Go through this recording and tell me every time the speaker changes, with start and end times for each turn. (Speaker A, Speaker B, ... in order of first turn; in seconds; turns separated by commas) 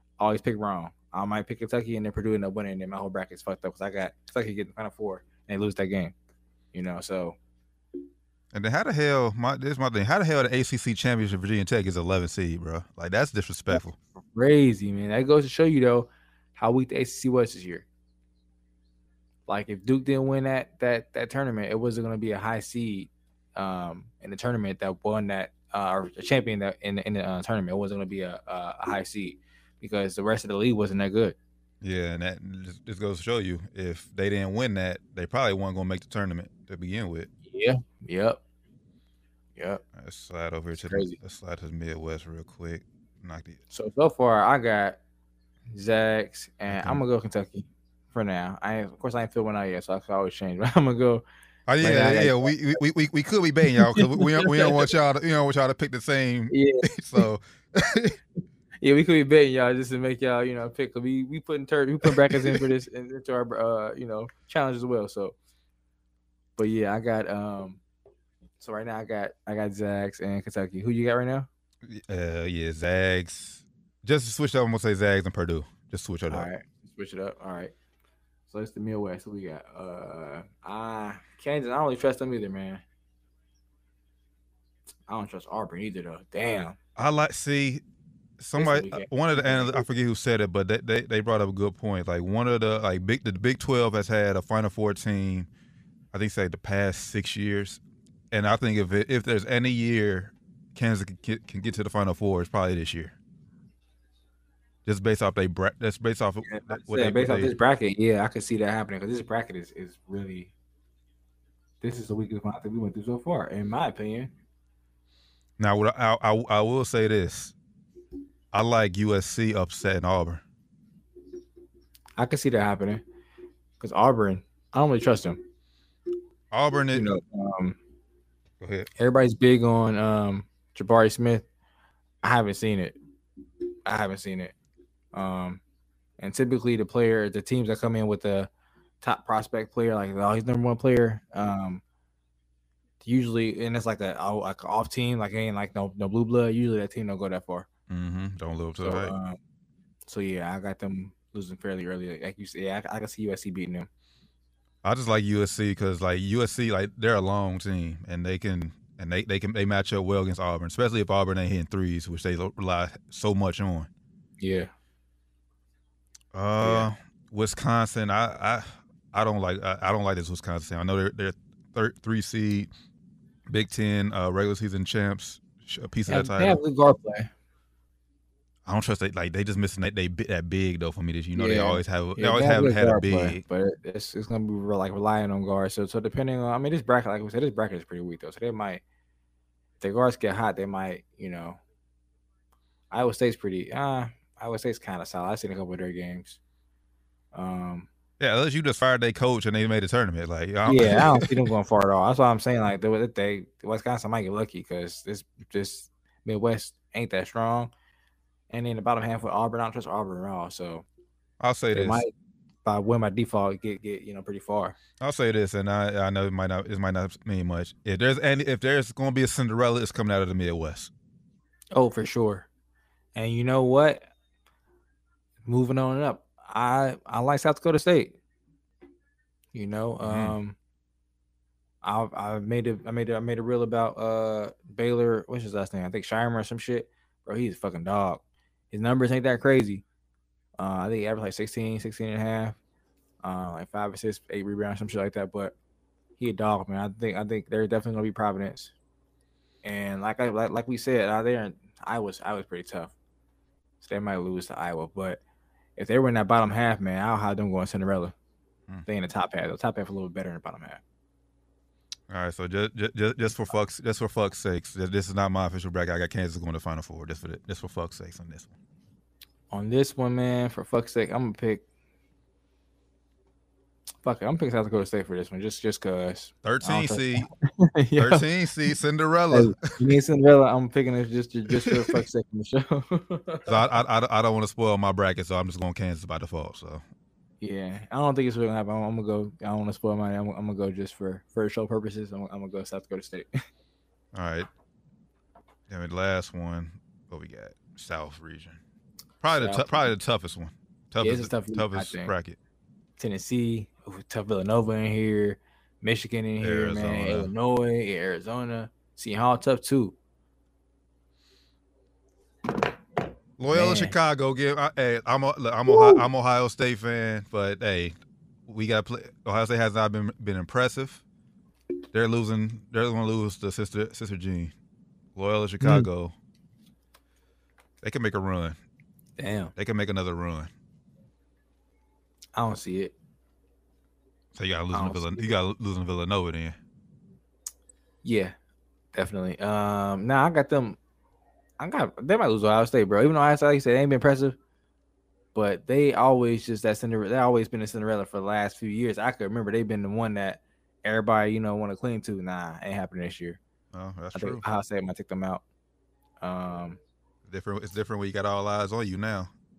Speaker A: 0.2-6.1, Speaker A: 6.7-7.3, Speaker B: 8.5-13.9, Speaker A: 13.7-17.9, Speaker A: 19.5-31.4, Speaker B: 31.8-37.3, Speaker A: 37.5-38.4, Speaker A: 39.5-39.8, Speaker B: 40.0-43.6, Speaker A: 40.7-41.2, Speaker A: 43.7-45.0, Speaker A: 45.7-51.2, Speaker B: 46.7-47.0, Speaker B: 51.7-58.2, Speaker A: 51.8-52.8, Speaker A: 53.8-54.9, Speaker A: 56.5-57.2, Speaker A: 58.8-65.3, Speaker B: 62.1-62.6, Speaker A: 66.6-67.8, Speaker A: 68.6-71.5, Speaker B: 71.8-76.5, Speaker A: 76.3-77.7, Speaker A: 78.5-82.8, Speaker A: 85.1-86.8, Speaker B: 87.0-87.8, Speaker B: 88.4-95.5, Speaker A: 88.5-89.9, Speaker B: 96.1-97.8, Speaker B: 98.3-103.1, Speaker B: 104.8-107.5, Speaker A: 106.4-110.5, Speaker A: 111.8-114.3, Speaker B: 115.6-117.5, Speaker B: 118.5-120.4, Speaker A: 122.2-123.0, Speaker A: 123.8-125.4, Speaker B: 126.5-127.1, Speaker A: 126.9-127.8, Speaker B: 128.6-128.9, Speaker A: 129.0-131.4, Speaker A: 132.2-132.9, Speaker A: 133.8-134.5, Speaker A: 135.1-135.6, Speaker A: 136.2-138.5, Speaker A: 139.0-141.8, Speaker A: 143.0-147.7, Speaker B: 147.9-149.1, Speaker A: 148.8-149.4, Speaker A: 150.1-153.9, Speaker B: 154.8-163.9, Speaker A: 164.4-164.7, Speaker B: 166.3-172.7, Speaker A: 166.6-166.9, Speaker B: 173.5-176.6, Speaker A: 176.1-177.3, Speaker B: 178.7-183.4, Speaker A: 181.3-188.8, Speaker A: 189.8-191.6, Speaker A: 192.9-196.4, Speaker A: 197.3-197.9, Speaker B: 198.2-201.4, Speaker A: 200.7-207.7, Speaker A: 208.5-210.8, Speaker B: 211.4-212.0, Speaker A: 211.7-212.1, Speaker A: 212.6-214.8, Speaker B: 215.0-220.9, Speaker A: 221.7-222.5, Speaker A: 223.1-224.1, Speaker A: 225.4-228.2, Speaker A: 229.5-230.6, Speaker B: 230.0-230.3, Speaker A: 231.8-239.8, Speaker A: 240.6-242.6, Speaker A: 243.2-245.5, Speaker A: 246.2-248.7, Speaker A: 249.6-252.9, Speaker A: 253.8-255.2, Speaker A: 255.8-258.1, Speaker A: 258.9-260.8, Speaker B: 262.1-268.5, Speaker A: 269.5-271.6, Speaker A: 274.0-278.2, Speaker B: 276.4-277.3, Speaker B: 278.0-279.9, Speaker A: 279.3-283.6, Speaker B: 281.5-282.0, Speaker B: 283.5-286.8, Speaker A: 287.4-293.3, Speaker B: 294.1-294.5, Speaker B: 295.7-298.6, Speaker B: 299.2-302.4, Speaker A: 299.4-299.9, Speaker A: 301.0-302.1, Speaker A: 303.0-309.9, Speaker B: 306.4-307.3, Speaker B: 313.4-317.9, Speaker A: 313.5-313.9, Speaker A: 315.7-316.0, Speaker B: 318.5-321.0, Speaker B: 321.9-324.5, Speaker B: 325.1-326.1, Speaker A: 325.6-325.9, Speaker B: 327.8-328.6, Speaker A: 329.2-329.5, Speaker B: 329.6-330.5, Speaker A: 332.3-332.9, Speaker B: 334.3-336.6, Speaker A: 334.7-335.4, Speaker A: 338.0-338.3, Speaker A: 338.9-340.8, Speaker A: 341.6-344.4, Speaker A: 345.3-353.4, Speaker B: 353.7-354.4, Speaker A: 354.1-355.4, Speaker A: 356.2-356.8, Speaker B: 357.2-359.3